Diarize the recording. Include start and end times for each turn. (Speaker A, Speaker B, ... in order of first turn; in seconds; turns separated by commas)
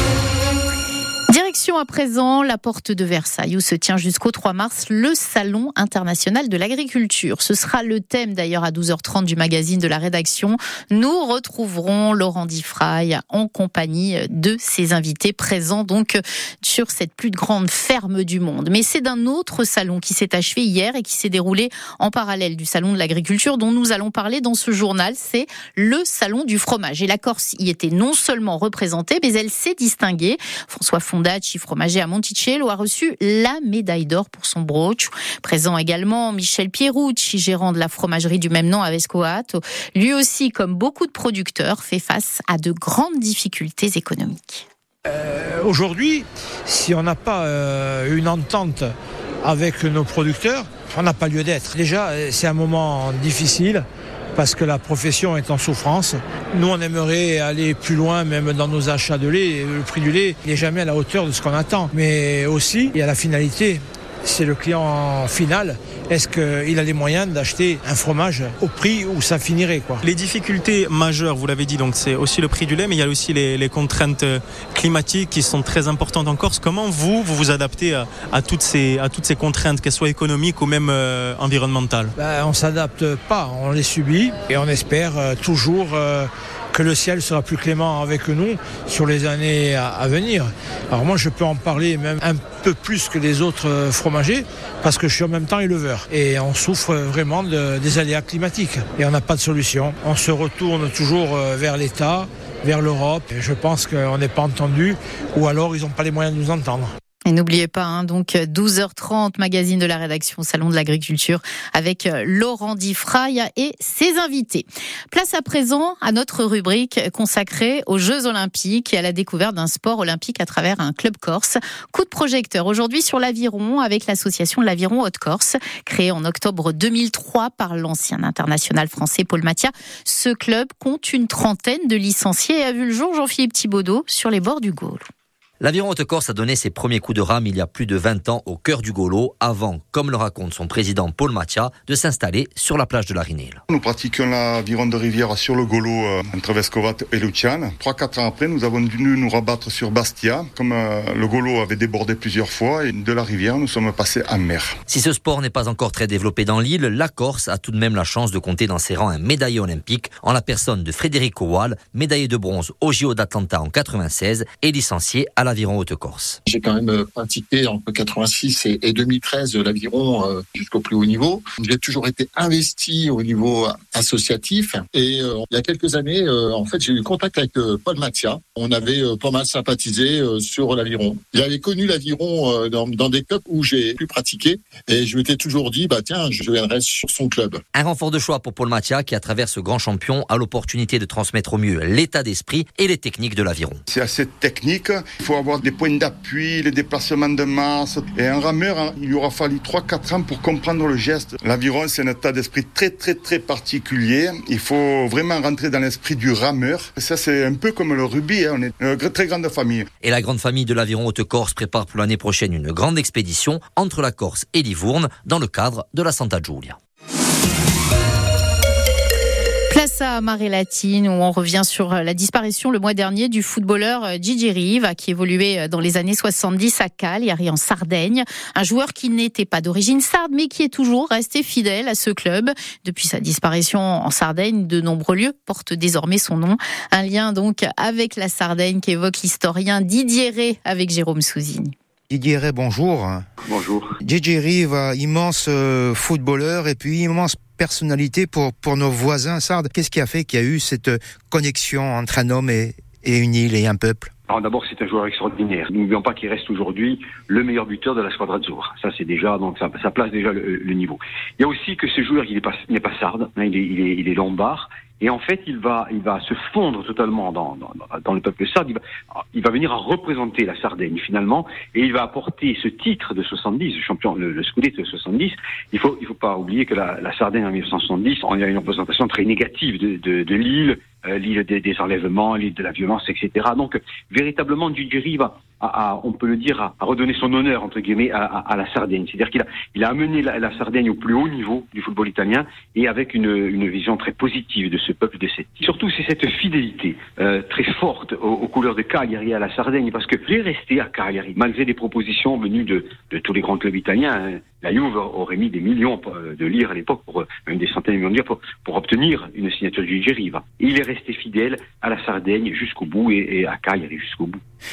Speaker A: 1.3-44.6, Speaker B: 45.1-70.0, Speaker C: 70.0-82.1, Speaker B: 82.2-106.9, Speaker A: 107.3-135.0, Speaker D: 135.6-143.6, Speaker E: 143.7-154.8, Speaker D: 154.9-166.4, Speaker F: 166.4-187.6, Speaker D: 187.7-193.8, Speaker E: 193.9-209.8, Speaker D: 210.0-216.8, Speaker A: 219.7-241.7, Speaker G: 242.1-243.2, Speaker H: 243.4-243.9, Speaker G: 244.0-254.1, Speaker H: 254.3-268.8, Speaker H: 269.3-314.4